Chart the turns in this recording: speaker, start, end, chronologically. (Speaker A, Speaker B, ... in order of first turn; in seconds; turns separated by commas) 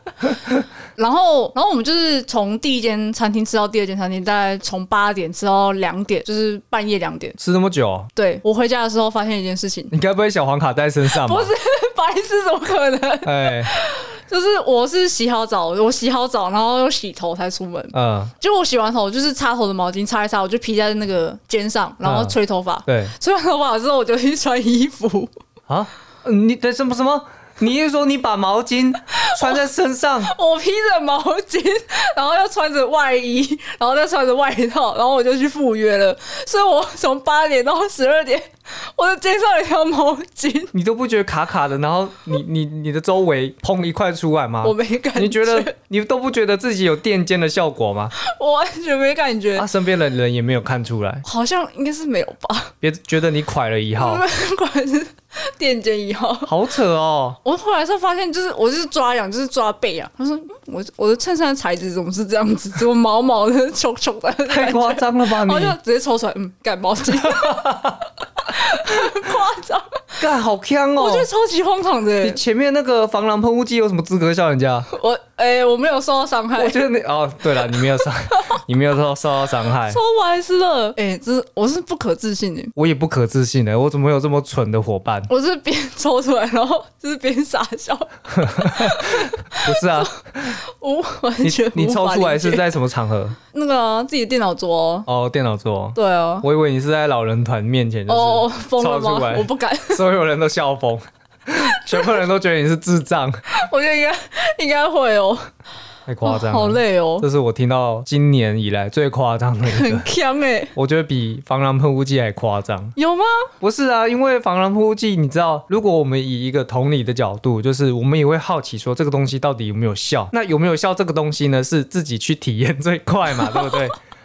Speaker A: 0.2-0.6, Speaker B: 1.0-7.4, Speaker A: 7.4-8.1, Speaker B: 8.2-9.9, Speaker A: 9.9-11.5, Speaker B: 11.1-25.3, Speaker A: 13.2-13.7, Speaker A: 17.9-18.3, Speaker A: 22.1-23.1, Speaker A: 25.7-30.3, Speaker B: 29.1-29.6, Speaker B: 30.2-40.7, Speaker A: 40.7-48.1, Speaker B: 44.6-45.7, Speaker B: 48.2-49.7, Speaker A: 49.6-51.2, Speaker B: 51.2-52.7, Speaker A: 52.8-54.2, Speaker B: 54.0-56.5, Speaker A: 56.5-57.4, Speaker B: 57.4-70.2, Speaker A: 64.5-65.8, Speaker A: 67.2-68.0, Speaker A: 68.9-69.1, Speaker A: 70.2-71.3, Speaker B: 71.0-72.4, Speaker A: 72.2-74.9, Speaker B: 74.9-76.8, Speaker A: 76.6-80.0, Speaker B: 78.3-78.6, Speaker B: 79.8-82.7, Speaker A: 82.8-85.3, Speaker B: 85.3-92.7, Speaker A: 88.3-90.6, Speaker A: 91.4-93.4, Speaker B: 93.5-95.1, Speaker A: 95.1-103.4, Speaker B: 96.0-96.5, Speaker B: 98.1-100.0, Speaker B: 103.5-105.5, Speaker A: 106.1-110.1, Speaker B: 106.2-107.3, Speaker B: 109.7-110.7, Speaker A: 110.8-113.0, Speaker B: 113.0-113.5, Speaker A: 113.6-124.0, Speaker B: 123.3-123.9